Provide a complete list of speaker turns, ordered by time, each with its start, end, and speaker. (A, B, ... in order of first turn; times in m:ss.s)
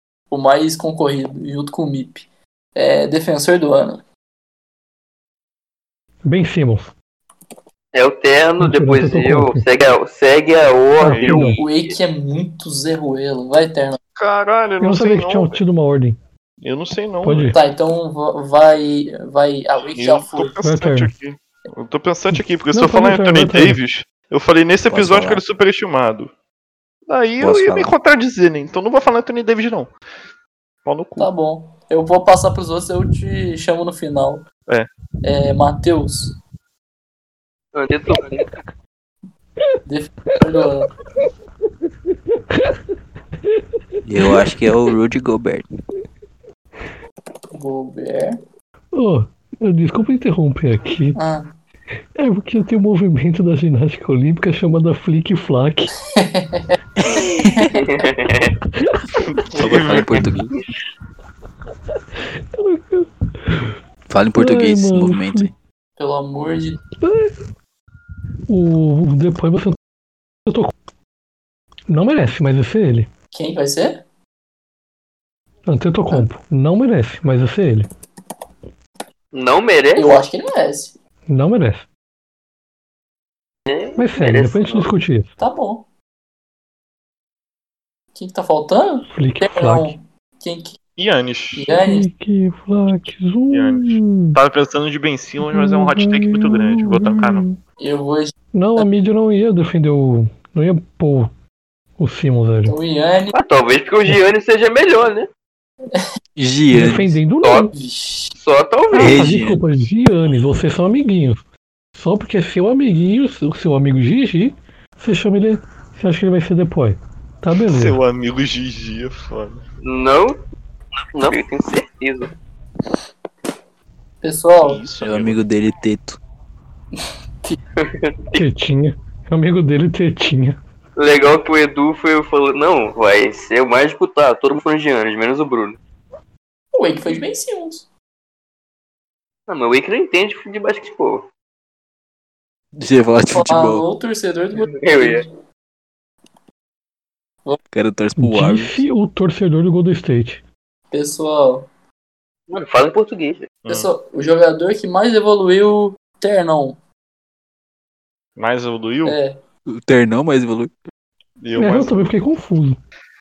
0:00.3-0:04.0 A
0:06.2-0:06.9 B
0:07.9-0:12.0 C
0:08.6-0:09.6 B
0:11.0-0:11.6 B
0:11.0-0:11.6 D
0:11.6-0:14.0 A
0:14.2-0:15.6 D
0:14.8-0:16.2 B
0:16.6-0:17.6 D
0:17.2-0:17.6 B
0:17.5-0:20.6 A
0:19.9-0:26.3 D
0:20.6-0:21.1 B
0:22.3-0:23.8 B
0:24.9-0:25.4 E
0:27.1-0:29.9 D
0:27.4-0:27.9 E
0:30.8-0:31.3 D
0:31.2-0:34.4 A
0:35.2-0:36.4 A
0:37.7-0:38.5 C
0:39.9-0:40.9 A
0:44.0-0:45.7 E
0:47.5-0:48.4 A
0:48.9-0:51.2 B
0:51.2-0:51.5 A
0:52.2-0:55.9 B
0:56.1-0:56.8 A
0:57.1-0:58.6 C
0:58.8-0:59.1 B
0:59.4-1:00.2 D
0:59.6-1:00.5 E
1:02.3-1:03.7 B
1:04.1-1:05.5 E
1:04.4-1:05.5 B
1:06.0-1:06.8 A
1:07.0-1:07.4 B
1:08.5-1:09.8 B
1:10.5-1:10.7 B
1:11.9-1:13.1 B
1:13.3-1:14.0 A
1:15.7-1:17.9 B
1:19.3-1:20.2 C
1:20.0-1:21.0 A
1:21.3-1:21.9 B
1:23.7-1:24.9 C
1:24.0-1:25.3 B
1:25.4-1:25.9 A
1:28.1-1:30.8 A
1:29.1-1:30.0 B
1:31.0-1:31.7 D
1:31.6-1:32.1 A
1:31.8-1:34.4 B
1:33.5-1:37.5 D
1:35.4-1:37.6 B
1:37.8-1:38.9 A
1:38.5-1:41.3 B
1:42.0-1:42.8 B
1:42.7-1:43.4 A
1:43.4-1:45.3 C
1:46.4-1:47.2 E
1:46.7-1:47.7 B
1:47.7-1:48.4 A
1:48.4-1:49.2 C
1:48.9-1:51.4 B
1:49.0-1:49.6 E
1:52.0-1:58.0 B
1:57.6-1:59.6 D
1:59.8-2:00.4 C
2:01.1-2:02.3 C
2:04.2-2:04.8 A
2:04.6-2:05.4 D
2:05.0-2:06.2 E
2:07.8-2:08.4 C
2:08.3-2:10.6 B
2:11.0-2:15.8 C
2:16.7-2:17.9 A
2:19.5-2:21.3 C
2:22.8-2:23.9 E
2:23.3-2:25.3 A
2:24.6-2:25.3 C
2:27.7-2:28.8 E
2:28.2-2:30.4 B
2:30.9-2:31.7 A
2:32.5-2:33.6 C
2:33.6-2:33.9 D
2:33.7-2:36.8 A
2:38.4-2:39.2 D
2:39.0-2:39.4 A
2:39.7-2:40.7 E
2:41.4-2:42.1 D
2:41.6-2:42.8 B